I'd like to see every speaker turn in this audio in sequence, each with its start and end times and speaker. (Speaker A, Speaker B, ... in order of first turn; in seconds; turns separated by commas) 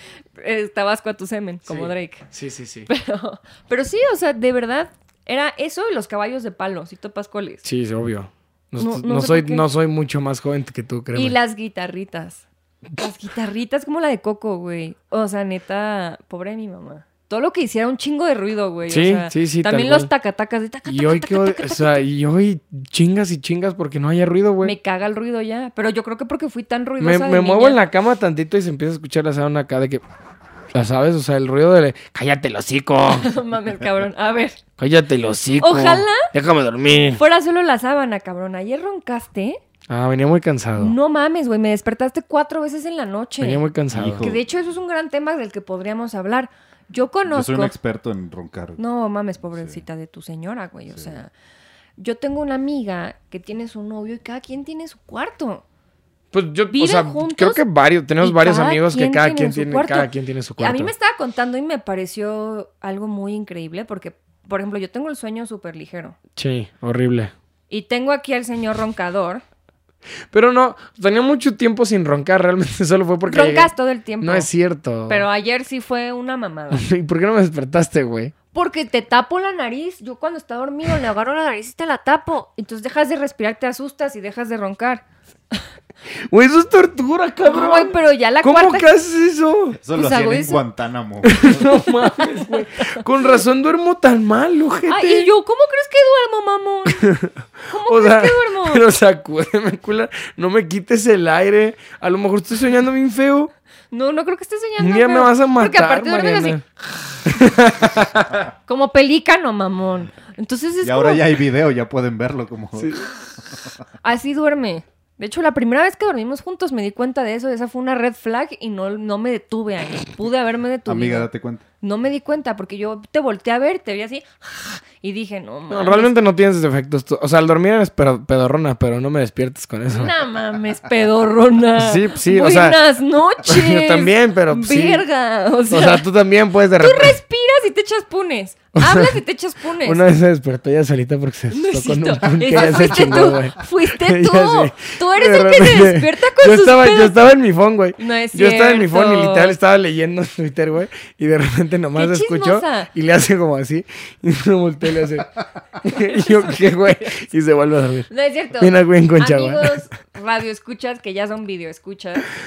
Speaker A: 0.4-2.2, Speaker B: 1.7-2.9, Speaker A: 2.9-7.6, Speaker B: 7.6-11.4, Speaker A: 8.8-9.7, Speaker A: 11.1-12.4, Speaker A: 13.0-22.0, Speaker B: 18.9-20.1, Speaker B: 20.9-24.7, Speaker A: 24.6-27.8, Speaker B: 27.0-30.0, Speaker B: 30.7-33.3, Speaker A: 33.2-34.6, Speaker B: 34.8-37.2, Speaker A: 35.6-36.3, Speaker A: 37.1-39.6, Speaker B: 39.9-41.0, Speaker A: 40.8-43.6, Speaker B: 43.4-44.3, Speaker C: 43.9-44.4, Speaker A: 44.2-47.8, Speaker C: 47.3-48.8, Speaker A: 48.8-51.3, Speaker A: 52.0-55.6, Speaker B: 56.3-60.9, Speaker A: 56.7-57.6, Speaker A: 58.2-66.2, Speaker B: 66.4-67.3, Speaker A: 67.7-69.4, Speaker B: 70.3-75.3, Speaker A: 73.3-74.5, Speaker A: 75.1-76.8, Speaker B: 76.7-78.3, Speaker A: 78.5-85.6, Speaker B: 86.3-89.8, Speaker A: 87.4-88.9, Speaker C: 89.8-91.8, Speaker A: 89.9-90.6, Speaker B: 91.2-95.3, Speaker A: 94.9-97.1, Speaker B: 97.0-103.5, Speaker A: 97.7-98.8, Speaker A: 103.9-106.6, Speaker B: 104.8-106.6, Speaker B: 107.2-108.4, Speaker A: 108.7-111.2, Speaker C: 110.8-113.0, Speaker B: 112.8-113.1, Speaker A: 114.0-121.3, Speaker C: 120.9-121.6, Speaker A: 121.8-126.1, Speaker B: 125.7-130.1, Speaker A: 129.9-136.0, Speaker B: 131.8-135.1, Speaker B: 135.7-137.2, Speaker A: 136.8-140.0, Speaker B: 138.8-139.2, Speaker B: 139.8-159.8, Speaker A: 141.5-147.2, Speaker A: 148.0-149.6, Speaker A: 151.9-152.9, Speaker A: 156.0-156.5, Speaker A: 158.1-162.3